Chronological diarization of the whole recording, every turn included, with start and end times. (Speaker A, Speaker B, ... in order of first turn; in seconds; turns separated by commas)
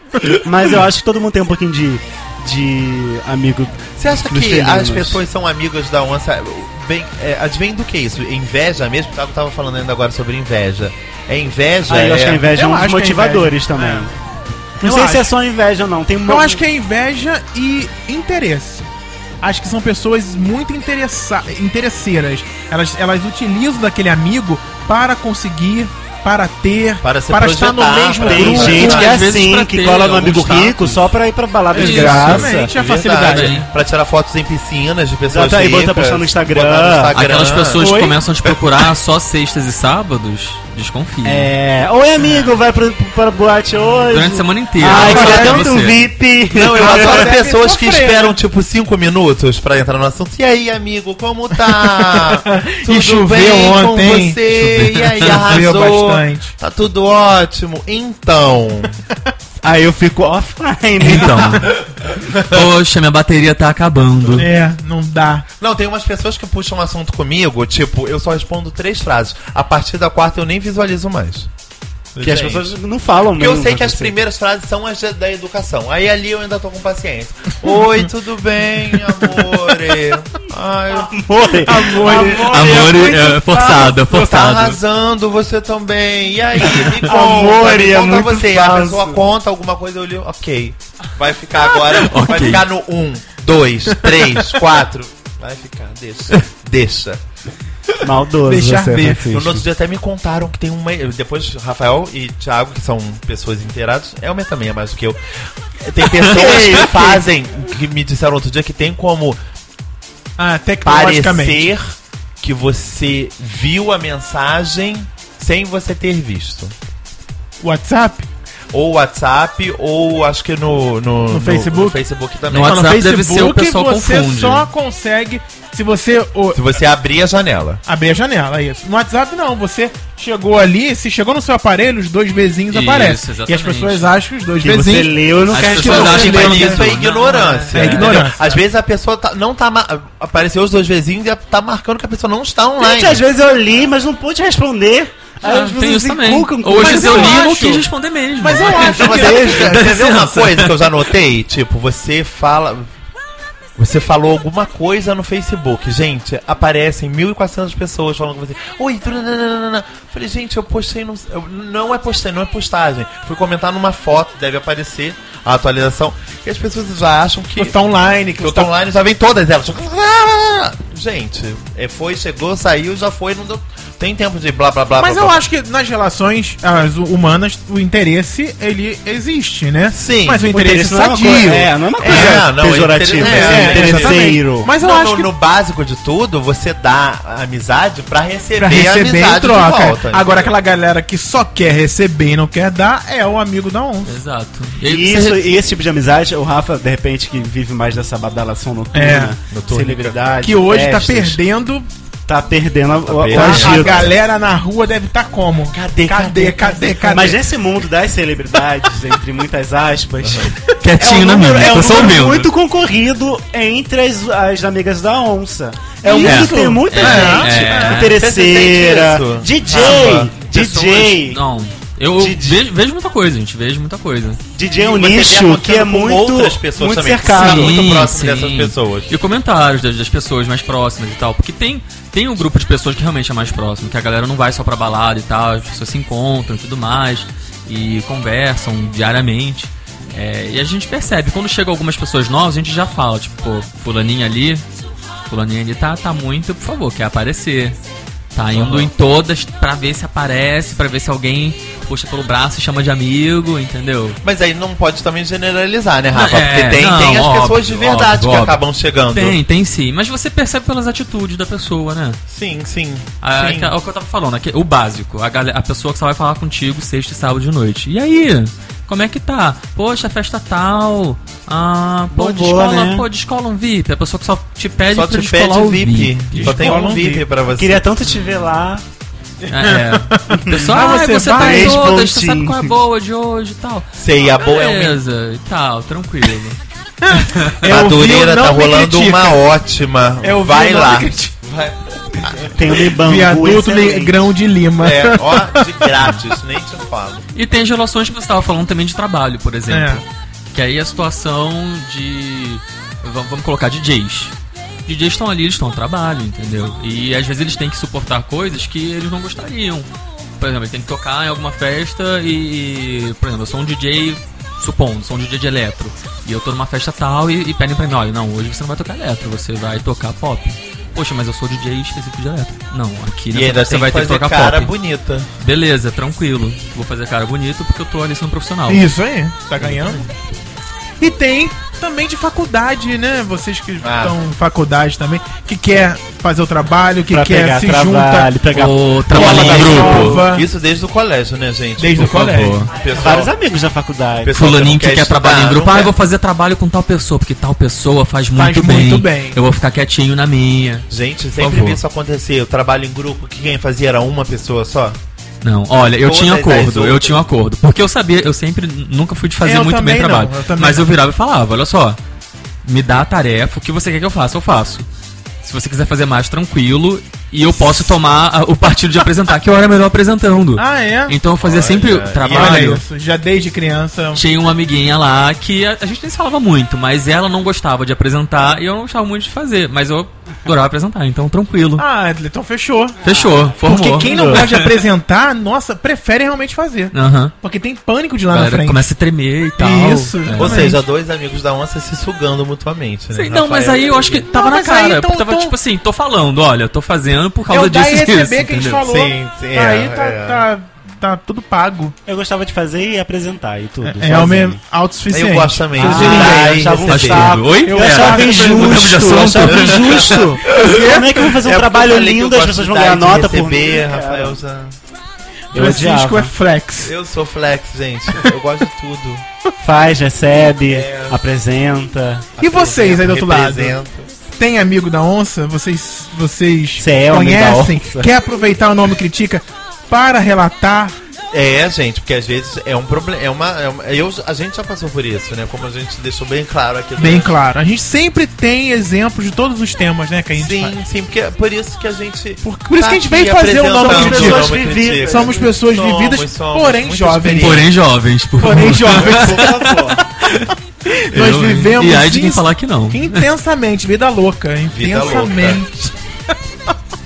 Speaker A: 0.4-5.2, Speaker B: 4.0-12.5, Speaker A: 11.9-14.1, Speaker C: 12.5-14.1, Speaker C: 14.8-15.3, Speaker A: 14.8-16.6, Speaker C: 16.3-18.8, Speaker C: 19.4-29.1, Speaker B: 27.0-29.1, Speaker A: 28.2-32.7, Speaker D: 28.6-31.1, Speaker D: 31.7-32.5, Speaker C: 31.7-33.7, Speaker B: 32.5-37.8, Speaker D: 33.0-33.7, Speaker A: 35.3-37.1, Speaker D: 37.1-41.5, Speaker C: 37.8-38.2, Speaker A: 41.2-47.3, Speaker D: 44.1-46.1, Speaker C: 44.8-45.7, Speaker B: 45.0-45.5, Speaker B: 46.5-59.0, Speaker C: 46.7-48.4, Speaker C: 51.8-54.4, Speaker D: 54.5-55.5, Speaker C: 55.2-56.5, Speaker A: 59.6-61.7, Speaker D: 61.0-64.5, Speaker B: 61.9-62.7, Speaker C: 64.3-65.5, Speaker B: 65.6-71.5, Speaker B: 72.1-97.2, Speaker A: 72.2-74.2, Speaker A: 80.9-82.7, Speaker C: 81.6-83.9, Speaker D: 82.1-84.8, Speaker D: 86.6-87.0, Speaker A: 86.8-89.2, Speaker D: 91.9-92.7, Speaker A: 98.0-99.6, Speaker C: 98.4-99.2, Speaker B: 99.1-109.4, Speaker A: 106.2-107.2, Speaker C: 110.4-111.7, Speaker B: 110.8-116.7, Speaker C: 117.6-118.3, Speaker B: 118.7-122.8, Speaker C: 121.3-122.0, Speaker D: 122.5-124.7, Speaker C: 122.5-126.6, Speaker B: 126.5-127.8, Speaker C: 127.8-136.9, Speaker D: 132.7-134.1, Speaker A: 134.6-136.6, Speaker D: 135.5-138.5, Speaker B: 135.6-143.2, Speaker C: 137.7-138.4, Speaker A: 142.8-147.4, Speaker D: 145.4-150.9, Speaker C: 146.8-147.8, Speaker C: 148.4-149.7, Speaker B: 148.6-152.9, Speaker A: 149.0-149.7, Speaker B: 153.8-167.8, Speaker C: 167.6-168.7, Speaker B: 168.4-175.4, Speaker C: 175.0-182.4, Speaker B: 179.9-180.5, Speaker A: 180.5-184.7, Speaker B: 182.0-190.5, Speaker C: 183.2-185.3, Speaker C: 188.6-194.2, Speaker D: 194.0-195.4, Speaker A: 194.8-201.4, Speaker C: 198.9-199.3, Speaker B: 199.5-200.2, Speaker C: 200.4-201.9, Speaker A: 202.3-204.1, Speaker B: 203.0-204.2, Speaker C: 203.3-207.4, Speaker B: 205.7-207.2, Speaker A: 207.1-221.4, Speaker B: 210.2-210.5, Speaker D: 210.8-212.5, Speaker C: 216.0-218.0, Speaker D: 216.2-218.1, Speaker B: 217.8-221.1, Speaker D: 219.7-224.4, Speaker A: 222.2-222.6, Speaker A: 224.5-227.8, Speaker B: 224.7-229.1, Speaker D: 227.3-244.6, Speaker D: 245.3-247.8, Speaker D: 248.3-254.2, Speaker B: 248.5-248.9, Speaker B: 254.2-259.4, Speaker D: 256.1-258.6, Speaker D: 259.1-262.2, Speaker B: 262.3-263.7, Speaker D: 263.2-276.8, Speaker A: 272.1-273.1, Speaker B: 274.9-277.8, Speaker C: 276.3-277.2, Speaker A: 277.5-278.8, Speaker D: 278.0-278.5, Speaker C: 279.5-281.9, Speaker D: 279.5-286.6, Speaker A: 280.3-282.7, Speaker B: 283.9-285.0, Speaker C: 287.0-289.4, Speaker B: 287.6-292.8, Speaker C: 290.2-291.3, Speaker A: 292.4-294.2, Speaker C: 292.9-296.1, Speaker B: 294.8-297.2, Speaker D: 297.3-304.3, Speaker C: 299.7-300.0, Speaker D: 304.9-309.9, Speaker D: 310.4-324.7, Speaker B: 323.3-325.3, Speaker D: 325.4-328.9, Speaker C: 328.7-330.0, Speaker D: 329.6-329.9, Speaker C: 331.0-338.3, Speaker B: 333.8-334.2, Speaker A: 337.1-340.1, Speaker D: 338.5-340.2, Speaker C: 339.1-340.4, Speaker B: 339.3-343.3, Speaker C: 341.8-342.7, Speaker D: 342.0-342.7, Speaker A: 342.9-344.4, Speaker B: 344.2-345.9, Speaker D: 344.3-351.8, Speaker C: 348.4-349.4, Speaker B: 350.9-355.0, Speaker D: 355.4-362.0, Speaker B: 355.9-357.3, Speaker C: 359.4-360.9, Speaker D: 362.6-364.9, Speaker D: 365.4-372.8, Speaker C: 367.4-367.9, Speaker C: 370.6-371.2, Speaker B: 371.4-372.8, Speaker C: 372.2-374.2, Speaker D: 374.1-381.8, Speaker C: 381.8-383.0, Speaker A: 383.0-384.4, Speaker D: 383.0-384.9, Speaker C: 383.6-388.8, Speaker D: 386.9-387.3, Speaker D: 388.3-390.8, Speaker C: 389.6-390.8, Speaker B: 390.4-394.2, Speaker D: 393.1-398.8, Speaker C: 394.3-395.5, Speaker C: 397.5-401.9, Speaker B: 398.8-400.4, Speaker A: 402.1-404.6, Speaker C: 403.8-406.8, Speaker B: 405.1-407.4, Speaker A: 405.8-414.4, Speaker D: 406.0-406.3, Speaker D: 406.9-410.1, Speaker C: 407.6-409.3, Speaker B: 409.4-414.8, Speaker C: 410.5-411.1, Speaker A: 415.5-416.3, Speaker C: 415.5-416.9, Speaker B: 416.8-419.2, Speaker A: 419.6-422.6, Speaker B: 420.7-421.2, Speaker C: 422.4-423.8, Speaker B: 422.4-424.1, Speaker C: 424.4-430.9, Speaker A: 426.8-428.1, Speaker B: 431.3-437.3, Speaker C: 437.0-440.7, Speaker B: 440.3-447.7, Speaker C: 442.4-447.6, Speaker A: 443.6-445.5, Speaker D: 447.4-450.5, Speaker C: 448.4-450.3, Speaker A: 448.9-450.0, Speaker C: 450.9-456.7, Speaker D: 451.1-453.3, Speaker B: 454.7-455.6